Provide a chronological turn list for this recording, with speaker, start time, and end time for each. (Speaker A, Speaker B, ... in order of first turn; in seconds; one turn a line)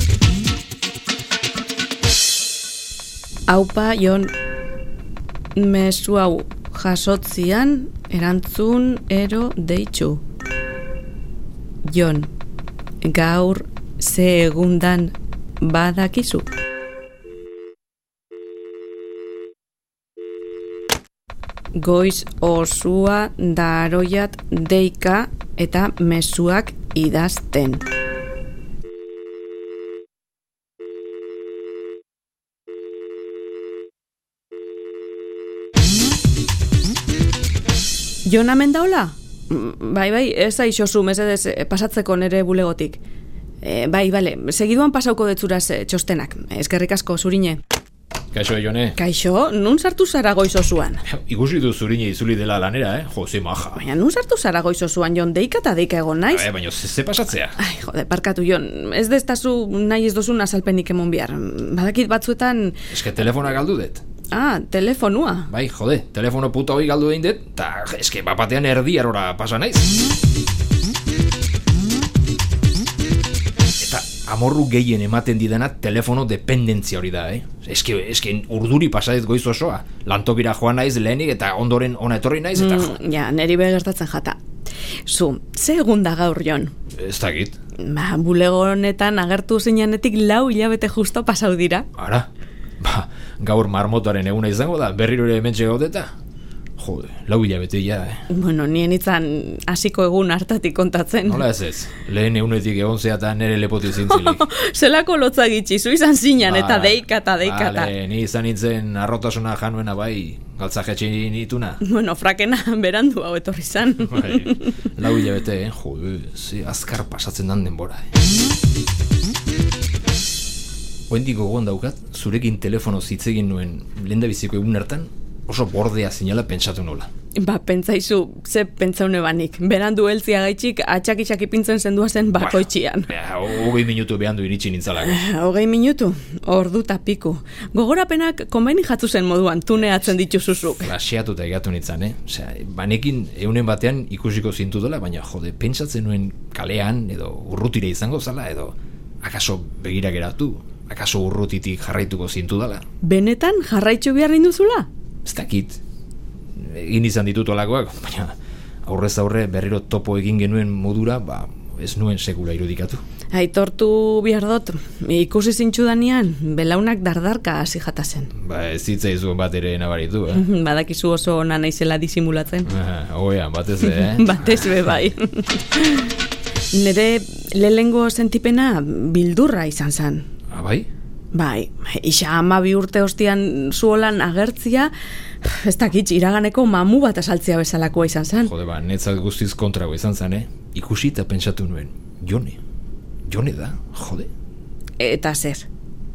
Speaker A: 3.5-4.3
Speaker A: 5.5-10.2
Speaker A: 11.8-12.3
Speaker A: 13.0-16.5
Speaker A: 21.7-27.9
Speaker A: 38.2-43.0
Speaker A: 43.6-47.6
Speaker B: 48.3-49.0
Speaker A: 49.0-51.0
Speaker B: 51.0-53.8
Speaker A: 53.7-56.5
Speaker B: 56.3-57.6
Speaker A: 57.6-62.8
Speaker B: 62.9-64.0
Speaker A: 64.3-65.5
Speaker B: 65.5-69.9
Speaker B: 73.8-83.0
Speaker A: 82.5-84.4
Speaker A: 85.0-86.7
Speaker B: 87.0-87.6
Speaker A: 87.8-91.9
Speaker B: 92.0-92.3
Speaker B: 92.8-96.1
Speaker B: 96.8-98.2
Speaker A: 98.3-101.5
Speaker B: 101.2-104.4
Speaker A: 104.0-107.9
Speaker B: 106.4-111.8
Speaker A: 111.8-114.8
Speaker B: 114.0-118.1
Speaker B: 121.1-127.1
Speaker A: 127.3-133.1
Speaker B: 132.4-135.2
Speaker A: 135.0-140.9
Speaker B: 139.9-152.8
Speaker A: 153.0-154.9
Speaker B: 155.2-155.8
Speaker B: 156.6-163.0
Speaker A: 163.3-168.3
Speaker B: 168.3-170.4
Speaker A: 170.3-172.7
Speaker B: 172.7-174.9
Speaker A: 173.8-176.1
Speaker A: 176.7-180.2
Speaker B: 180.5-180.9
Speaker A: 181.3-188.5
Speaker B: 188.4-192.6
Speaker B: 193.3-194.3
Speaker A: 195.0-195.7